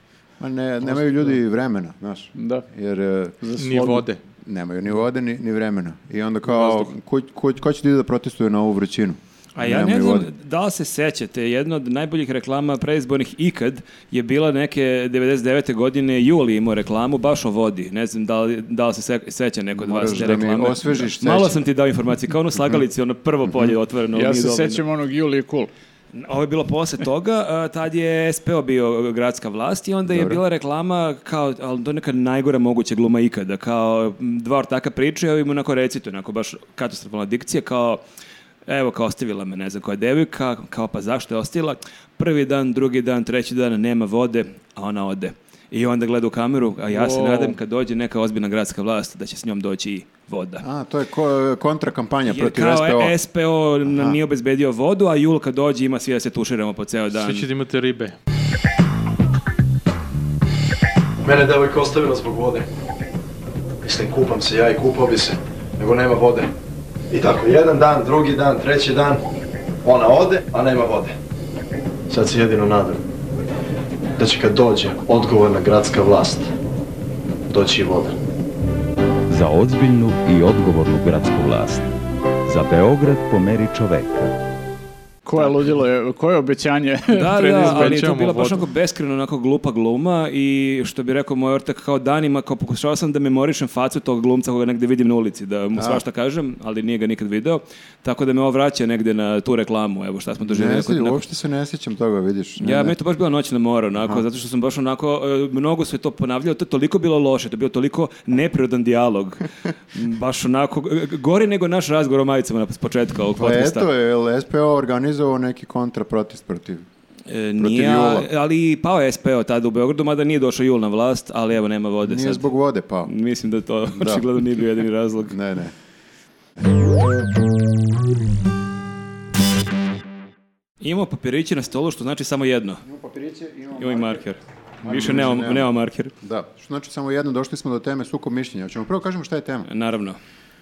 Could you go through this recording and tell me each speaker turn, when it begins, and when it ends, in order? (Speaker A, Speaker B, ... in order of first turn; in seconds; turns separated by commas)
Speaker A: 0.4-3.4, Speaker B: 2.4-2.6, Speaker B: 3.4-4.0, Speaker C: 3.6-4.2, Speaker A: 4.4-10.3, Speaker D: 9.6-24.8, Speaker A: 19.7-21.6, Speaker B: 24.1-25.7, Speaker D: 26.1-38.0, Speaker A: 30.1-30.4, Speaker D: 38.7-50.6, Speaker C: 46.9-47.6, Speaker A: 50.6-53.1, Speaker D: 52.3-57.5, Speaker A: 53.8-54.2, Speaker C: 57.1-58.1, Speaker E: 61.2-62.7, Speaker E: 63.8-66.5, Speaker E: 67.1-69.2, Speaker E: 69.8-71.1, Speaker E: 72.1-73.0, Speaker E: 74.2-76.5, Speaker E: 77.5-78.2, Speaker F: 79.3-81.9, Speaker F: 82.5-84.3, Speaker B: 85.2-88.1, Speaker D: 87.1-101.2, Speaker C: 87.6-88.6, Speaker A: 95.7-96.0, Speaker A: 100.4-102.9, Speaker D: 102.6-113.9, Speaker A: 113.3-116.8, Speaker D: 117.3-122.5, Speaker A: 117.6-118.3, Speaker A: 122.0-123.1, Speaker D: 123.0-125.3, Speaker A: 123.9-124.2, Speaker A: 125.3-125.7, Speaker D: 130.8-132.8, Speaker A: 132.8-134.2, Speaker D: 133.8-136.1, Speaker A: 134.8-135.7, Speaker A: 136.2-139.7, Speaker D: 139.7-140.2